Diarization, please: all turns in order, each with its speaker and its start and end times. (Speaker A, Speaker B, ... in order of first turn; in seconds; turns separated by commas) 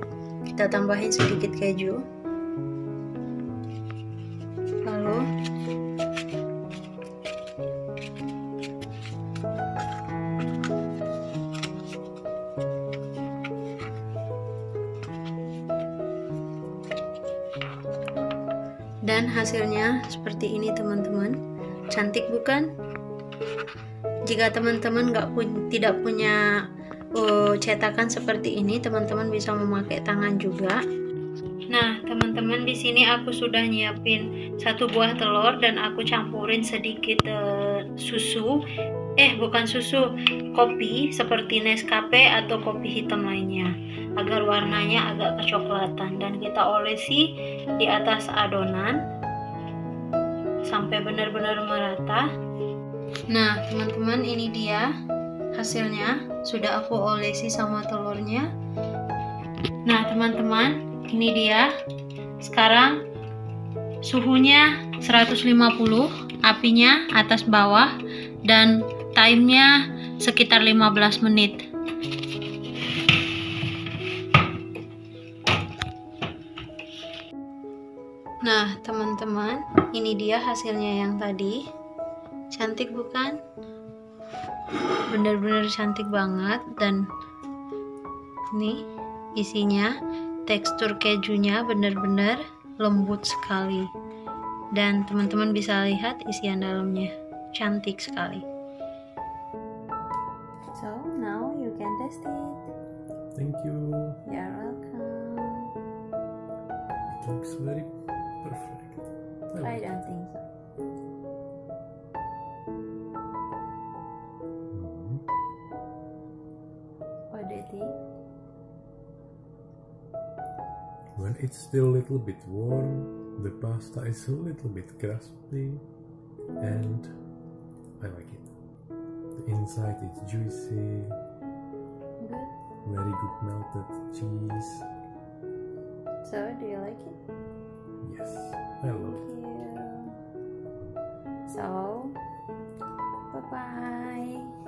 Speaker A: 0.5-2.0, Speaker A: 4.8-5.2, Speaker A: 19.0-21.4, Speaker A: 21.9-22.7, Speaker A: 24.3-26.4, Speaker A: 27.1-30.8, Speaker A: 31.7-38.6, Speaker A: 39.2-49.0, Speaker A: 50.6-52.3, Speaker A: 53.3-54.9, Speaker A: 55.5-58.5, Speaker A: 59.8-61.7, Speaker A: 62.4-63.0, Speaker A: 64.0-68.0, Speaker A: 68.5-71.6, Speaker A: 78.4-81.6, Speaker A: 82.5-83.4, Speaker A: 85.1-87.1, Speaker A: 88.5-88.8, Speaker A: 89.3-89.9, Speaker A: 90.5-93.9, Speaker A: 94.7-98.4, Speaker A: 100.7-102.6, Speaker B: 103.3-104.2, Speaker A: 104.2-105.7, Speaker B: 107.1-109.8, Speaker A: 109.6-110.4, Speaker B: 114.7-115.2, Speaker A: 117.3-118.0, Speaker B: 121.2-125.8, Speaker B: 126.6-127.1, Speaker B: 128.0-128.5, Speaker B: 129.3-131.2, Speaker A: 132.2-132.5, Speaker B: 132.8-134.9, Speaker A: 136.2-137.2, Speaker B: 138.0-139.2, Speaker A: 139.1-140.1, Speaker A: 141.5-142.2, Speaker A: 143.3-144.5